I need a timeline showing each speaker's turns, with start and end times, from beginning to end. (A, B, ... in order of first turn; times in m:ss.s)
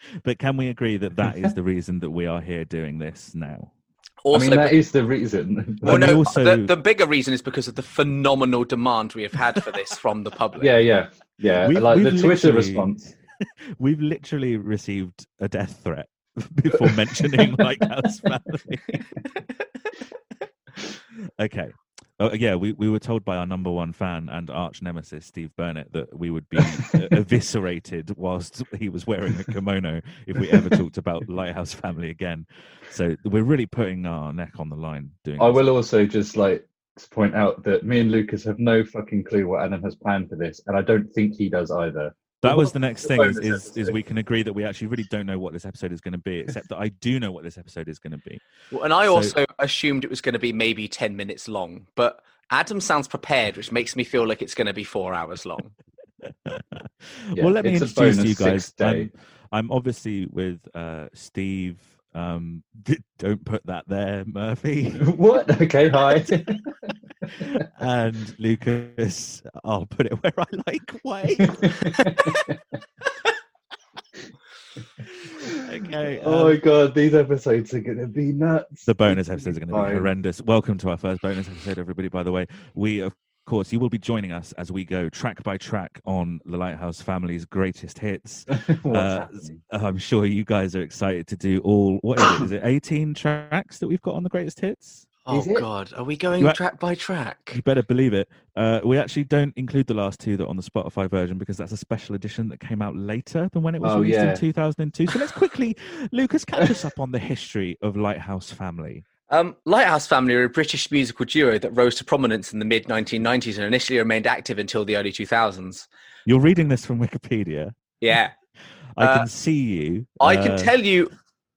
0:00.2-0:03.7 A
0:04.2-0:04.8 B
0:04.3-0:06.2 C
0:05.8-0:06.7 A
0:05.8-0:10.7 B
0:10.6-0:13.0 C
0:11.6-0:19.0 A
0:21.4-0:35.6 A
0:30.4-0:30.7 C
0:35.4-0:44.0 C
0:42.4-0:48.4 A
0:48.7-0:55.7 B
0:49.0-0:49.4 A
0:56.4-1:05.1 A
0:57.3-0:59.1 C
1:05.0-1:07.6 C
1:07.3-1:12.5 A
1:11.6-1:12.6 C
1:15.2-1:16.6 A
1:16.0-1:20.1 C
1:18.9-1:35.0 A
1:28.5-1:29.6 C
1:35.2-1:37.6 B
1:35.3-1:35.6 C
1:37.5-1:49.0 A
1:43.8-1:44.4 C
1:49.3-1:55.9 B
1:56.2-1:57.8 A
1:58.0-1:58.3 B
1:59.0-2:00.7 A
1:59.0-1:59.3 B
2:00.2-2:01.1 B